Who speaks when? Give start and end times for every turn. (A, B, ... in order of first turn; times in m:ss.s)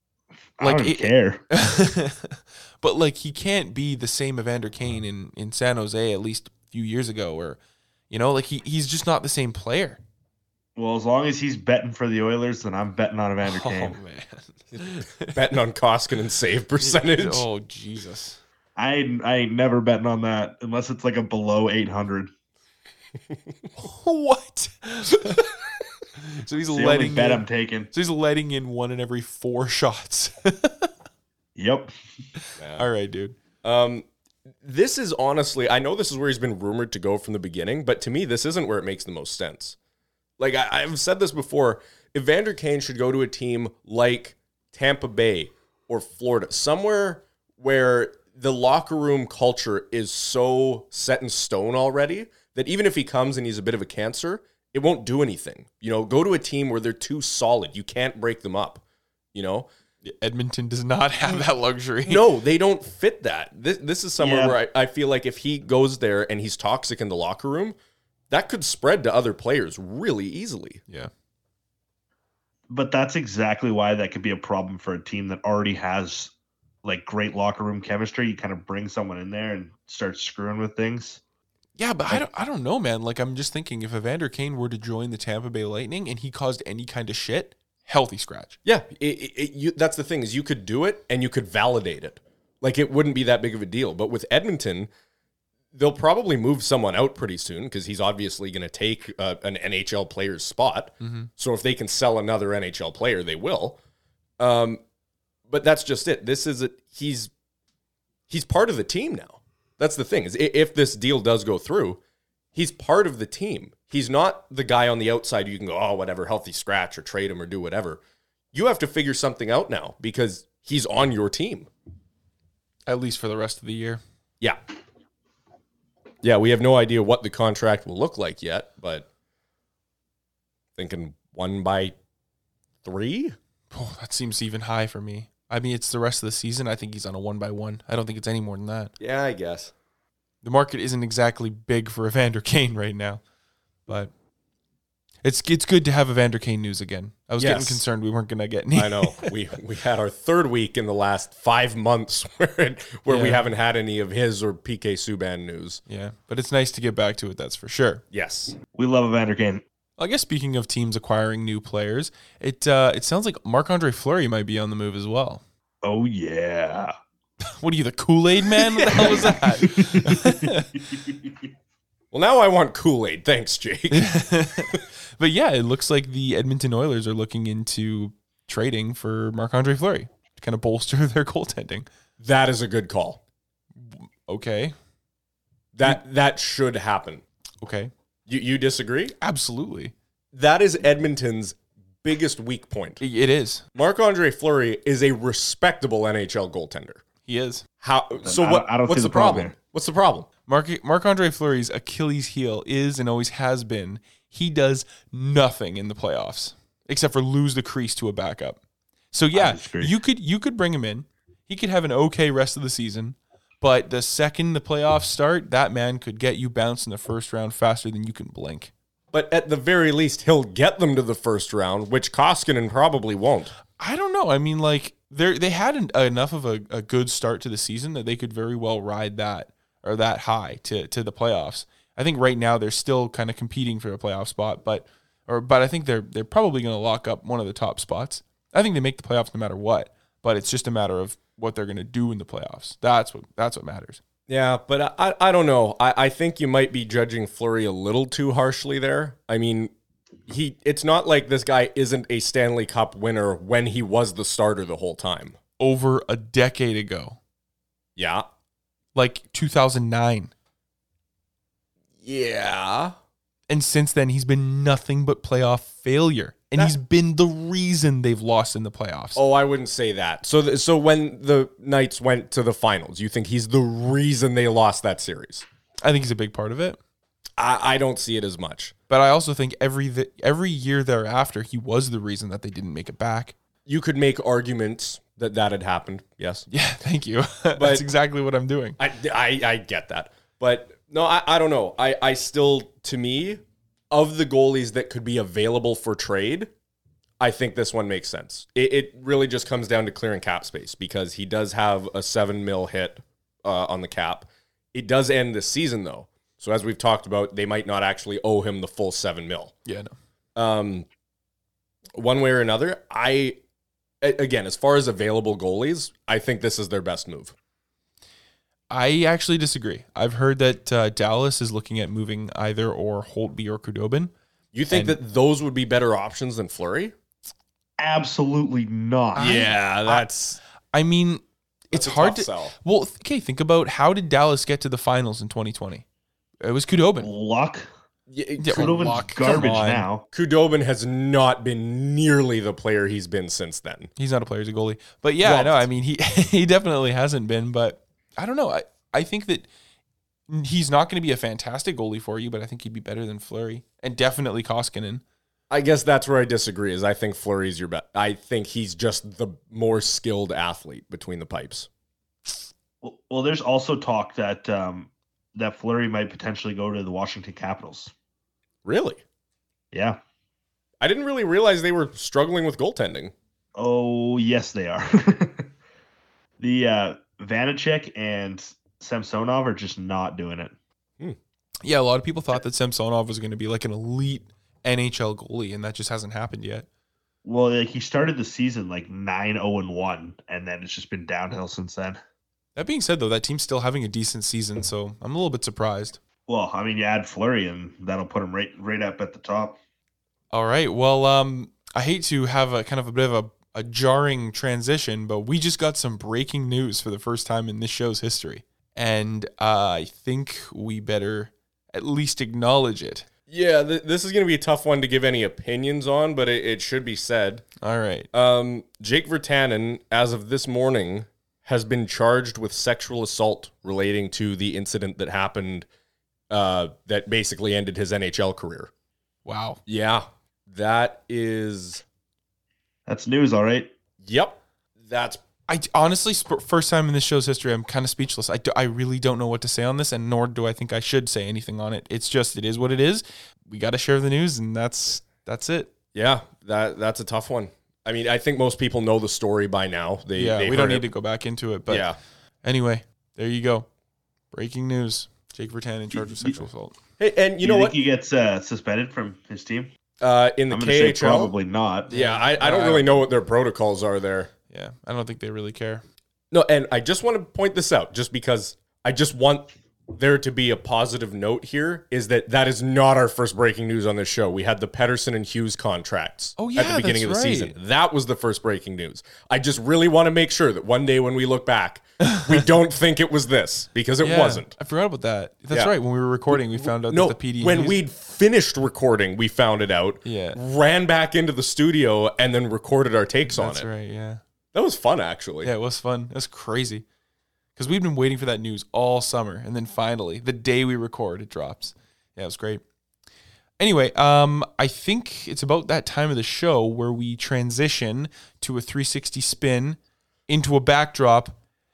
0:00.6-0:01.4 A
0:00.6-0:07.6 B
0:08.1-0:10.0 B
0:10.8-0:14.0 A
0:13.5-0:15.4 B
0:14.8-0:17.5 C
0:16.8-0:18.4 B
0:18.8-0:22.3 A
0:23.8-0:25.5 B
0:26.2-0:30.9 B
0:26.7-0:27.9 A
0:31.6-0:31.9 A
0:32.6-0:32.8 C
0:32.8-0:33.4 B
0:33.6-0:34.1 C
0:34.6-0:39.8 C
0:40.4-0:58.8 C
0:59.3-0:59.7 C
1:00.0-1:02.2 B
1:02.1-1:07.8 C
1:04.2-1:04.6 A
1:08.3-1:10.8 C
1:12.7-1:16.3 A
1:16.8-1:21.2 A
1:21.8-1:28.6 B
1:28.6-1:34.9 C
1:35.7-1:43.8 C
1:41.0-1:41.3 B
1:44.4-1:44.8 C
1:45.5-1:47.3 C
1:48.3-1:52.0 C
1:52.5-1:58.0 C
1:58.5-2:01.7 C
2:02.9-2:04.0 B
2:06.2-2:09.1 C
2:10.8-2:12.0 C
2:12.8-2:13.4 C
2:13.7-2:18.9 B
2:19.0-2:19.7 C
2:20.4-2:23.2 B
2:25.2-2:29.3 B
2:27.4-2:27.8 C
2:28.7-2:35.8 C
2:33.1-2:33.4 B
2:35.9-2:38.0 B
2:38.1-2:38.6 C
2:38.7-2:39.6 A
2:40.0-2:45.4 B
2:45.8-2:46.9 A
2:47.6-2:50.7 B
2:48.9-2:51.3 A
2:52.1-2:54.1 C
2:53.9-3:01.9 B
3:02.2-3:03.2 C
3:03.8-3:04.7 B
3:05.7-3:07.2 C
3:07.6-3:07.9 B
3:08.3-3:09.1 C
3:09.2-3:09.9 B
3:10.3-3:13.0 C
3:13.0-3:13.6 B
3:13.8-3:17.0 C
3:17.3-3:17.6 B
3:17.8-3:20.3 C
3:18.2-3:19.5 A
3:20.5-3:28.6 B
3:29.1-3:38.7 B
3:29.3-3:30.0 A
3:39.1-3:43.5 C
3:43.8-4:04.0 B
4:04.3-4:09.7 C
4:10.3-4:15.4 C
4:15.6-4:17.2 B
4:18.0-4:18.3 C
4:19.0-4:20.3 B
4:22.0-4:23.0 C
4:23.5-4:29.2 B
4:29.2-4:35.5 C
4:35.8-4:36.8 B
4:37.4-4:38.7 C
4:38.9-4:43.4 B
4:43.7-4:46.5 C
4:46.5-4:48.8 B
4:47.6-4:47.8 C
4:48.8-4:56.5 C
4:57.2-5:09.5 C
5:09.7-5:09.9 B
5:10.4-5:10.9 C
5:11.9-5:13.4 C
5:14.0-5:17.4 C
5:18.7-5:24.1 B
5:24.5-5:26.9 C
5:24.7-5:25.0 B
5:27.8-5:29.4 A
5:29.2-5:30.1 B
5:29.2-5:30.4 C
5:30.7-5:35.8 B
5:31.7-5:32.6 C
5:36.4-5:37.1 B
5:37.0-5:37.7 A
5:38.1-5:39.5 C
5:38.4-5:39.9 B
5:38.5-5:40.0 A
5:40.1-5:43.9 C
5:44.0-5:49.5 B
5:45.2-5:45.7 C
5:50.3-5:55.0 B
5:55.5-6:01.7 C
6:02.8-6:07.9 A
6:08.6-6:09.0 C
6:09.7-6:10.0 A
6:10.8-6:13.1 C
6:13.6-6:15.5 A
6:16.4-6:20.5 A
6:21.6-6:26.7 B
6:27.2-6:32.0 A
6:32.6-6:36.0 B
6:36.3-6:39.6 A
6:40.3-6:53.1 B
6:53.3-6:57.5 C
6:57.6-6:58.1 B
6:58.1-7:05.7 C
7:06.3-7:08.7 C
7:09.3-7:09.6 B
7:09.7-7:11.8 C
7:12.9-7:13.7 A
7:14.0-7:15.2 C
7:15.5-7:25.7 B
7:25.9-7:30.8 C
7:30.2-7:31.9 B
7:31.7-7:32.0 C
7:32.4-7:33.7 B
7:34.3-7:36.8 B
7:36.0-7:36.4 A
7:37.0-7:37.8 C
7:37.4-7:39.7 A
7:40.0-7:41.3 C
7:40.5-7:41.9 A
7:41.9-7:43.0 B
7:41.9-7:44.3 C
7:44.5-7:45.8 B
7:46.3-8:04.5 C
7:56.4-7:57.6 B
8:04.0-8:07.8 B
8:06.3-8:13.7 C
8:10.0-8:10.4 B
8:13.3-8:14.2 B
8:14.5-8:15.5 C
8:15.4-8:16.8 B
8:17.6-8:22.6 B
8:23.6-8:31.4 B